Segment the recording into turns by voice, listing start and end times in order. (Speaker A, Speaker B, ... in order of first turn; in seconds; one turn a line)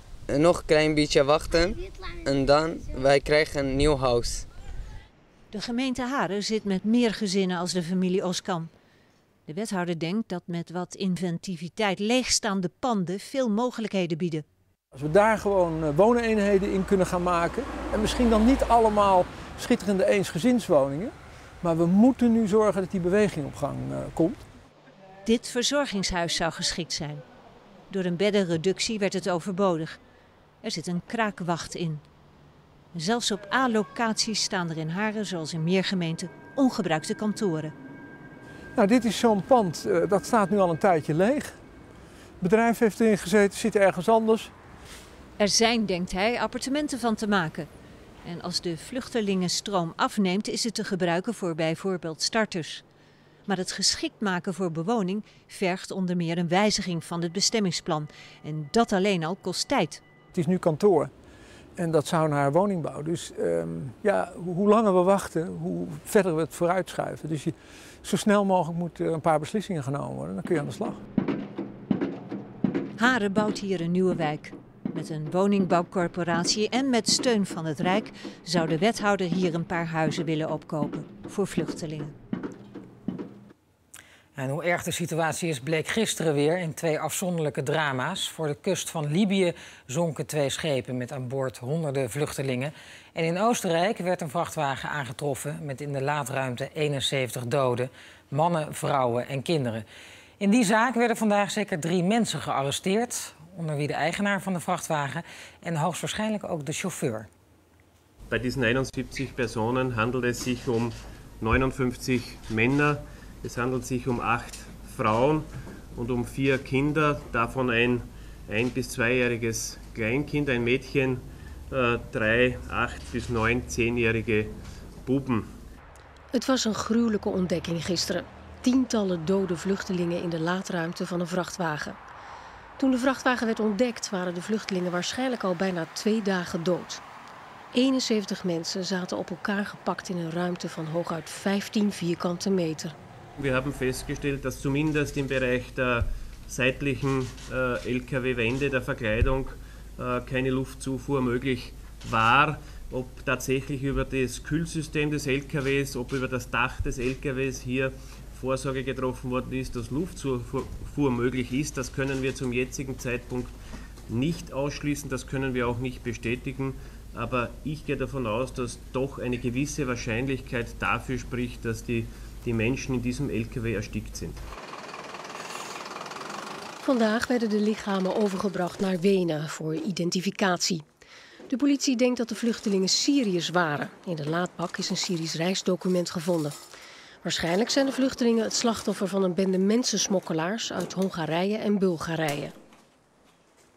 Speaker A: 0.3-4.5
Speaker B: 5.5-8.7
Speaker B: 9.5-14.4
Speaker C: 14.9-24.4
Speaker B: 25.2-27.2
Speaker B: 27.9-30.0
Speaker B: 30.6-32.0
Speaker B: 32.9-37.7
Speaker C: 38.7-41.6
Speaker C: 42.4-44.5
Speaker B: 45.4-47.7
Speaker B: 48.2-52.8
Speaker B: 53.5-60.0
Speaker C: 60.3-61.1
Speaker C: 61.8-71.0
Speaker B: 73.0-82.1
Speaker D: 84.3-99.8
Speaker D: 100.4-107.3
Speaker E: 108.3-125.5
Speaker F: 126.3-132.0
Speaker F: 132.8-137.0
Speaker F: 137.7-142.9
Speaker E: 143.4-163.6
Speaker E: 164.1-174.4
Speaker F: 176.8-180.8
Speaker F: 181.5-186.5
Speaker F: 187.2-192.5